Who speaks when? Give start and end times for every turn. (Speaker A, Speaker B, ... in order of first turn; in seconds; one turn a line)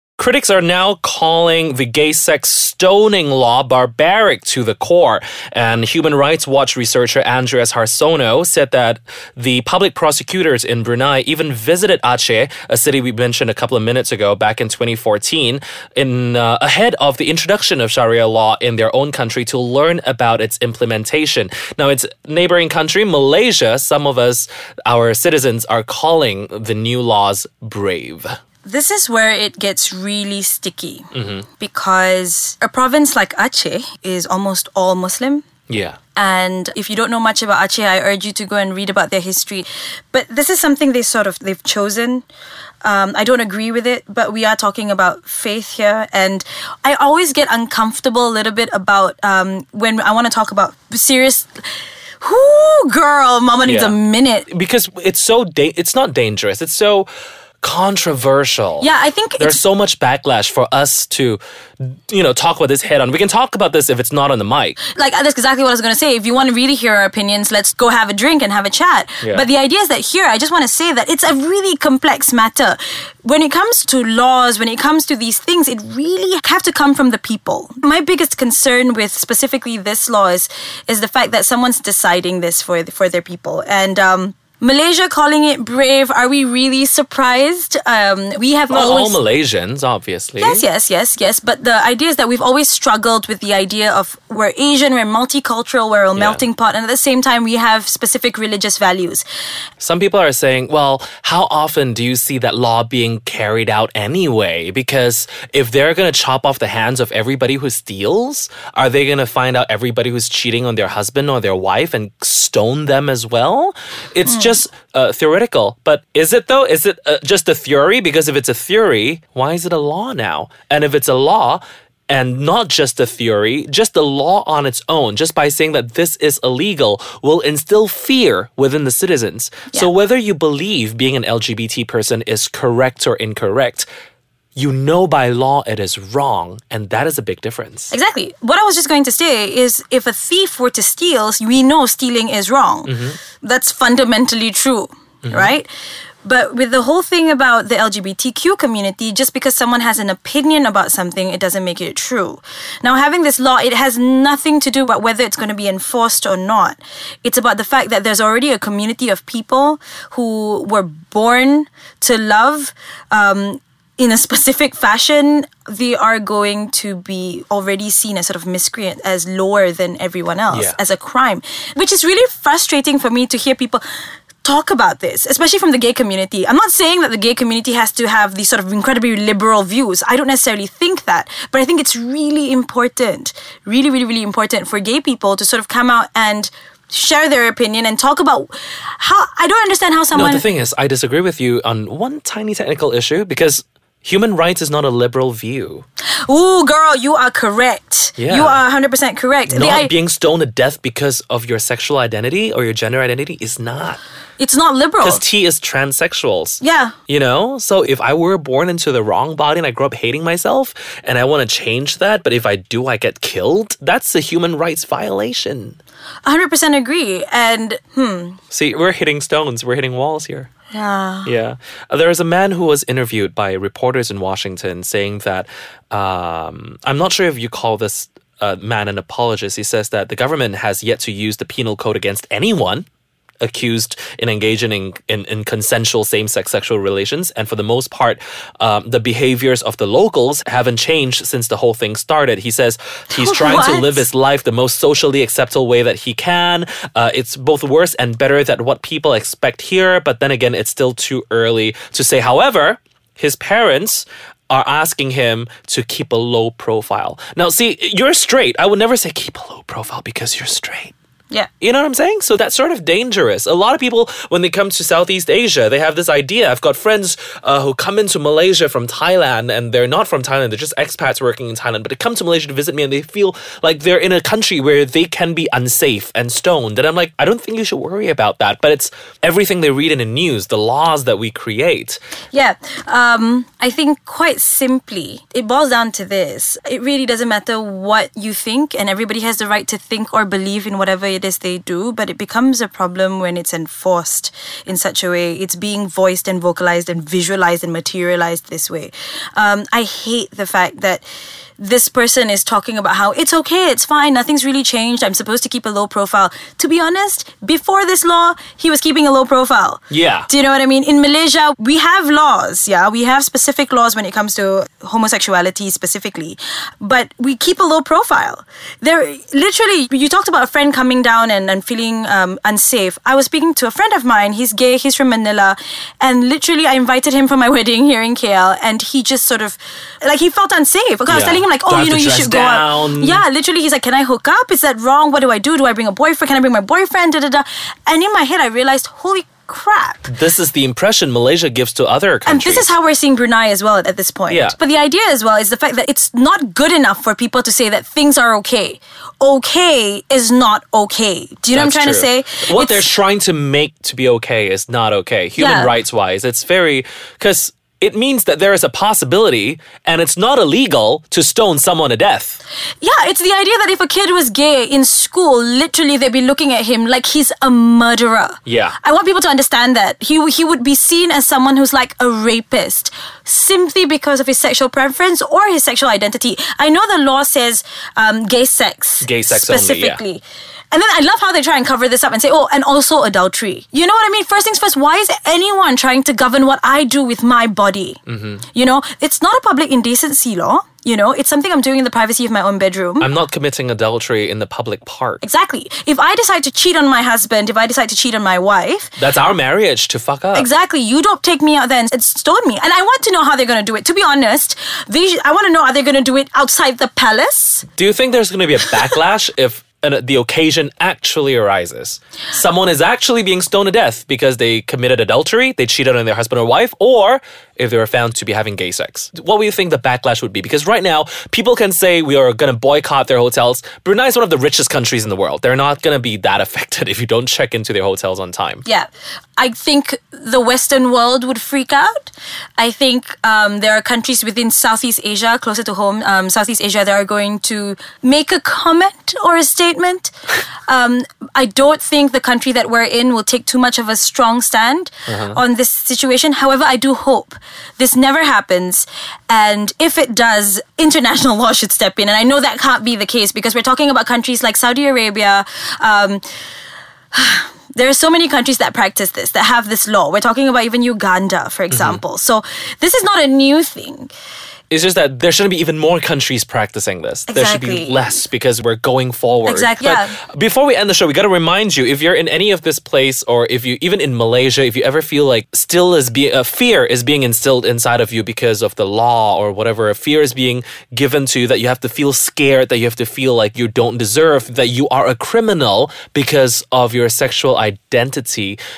Speaker A: 0.2-28.3
Speaker B: 28.6-35.5
Speaker A: 31.1-31.5
Speaker A: 35.7-36.0
Speaker B: 36.1-42.2
Speaker B: 42.8-51.7
Speaker B: 52.2-54.5
Speaker A: 53.6-54.0
Speaker A: 54.5-57.1
Speaker A: 57.6-58.9
Speaker B: 58.8-59.6
Speaker A: 59.4-64.8
Speaker B: 64.8-89.2
Speaker A: 88.7-90.6
Speaker B: 90.4-99.2
Speaker A: 96.1-96.4
Speaker A: 99.8-133.9
Speaker B: 114.2-114.6
Speaker A: 134.6-137.9
Speaker B: 137.9-145.7
Speaker A: 142.8-143.2
Speaker A: 145.2-145.5
Speaker B: 146.2-173.8
Speaker A: 170.5-170.8
Speaker B: 174.4-190.5
Speaker A: 190.1-195.8
Speaker B: 196.2-199.9
Speaker A: 198.2-198.6
Speaker A: 199.5-204.0
Speaker B: 204.4-205.2
Speaker A: 205.0-215.8
Speaker B: 206.6-207.0
Speaker B: 216.2-218.4
Speaker A: 218.5-220.5
Speaker B: 220.7-221.3
Speaker A: 221.2-232.9
Speaker A: 233.4-260.9
Speaker B: 243.1-244.1
Speaker A: 261.6-282.0
Speaker B: 282.3-301.0
Speaker B: 301.6-340.1
Speaker A: 309.9-310.3
Speaker A: 331.1-333.2
Speaker A: 340.1-342.7
Speaker B: 342.2-352.9
Speaker A: 344.3-344.6
Speaker A: 351.5-362.4
Speaker B: 355.4-355.7
Speaker B: 362.8-393.1
Speaker A: 368.5-368.8
Speaker A: 379.0-380.0
Speaker A: 388.1-388.5
Speaker A: 393.0-395.2
Speaker B: 395.2-399.0
Speaker A: 399.0-400.5
Speaker B: 400.3-407.7
Speaker A: 407.8-428.6
Speaker B: 428.6-440.1
Speaker B: 440.7-456.2
Speaker A: 445.1-445.4
Speaker B: 457.1-464.1
Speaker A: 461.7-462.0
Speaker A: 464.7-488.6
Speaker B: 467.3-468.2
Speaker B: 469.5-470.2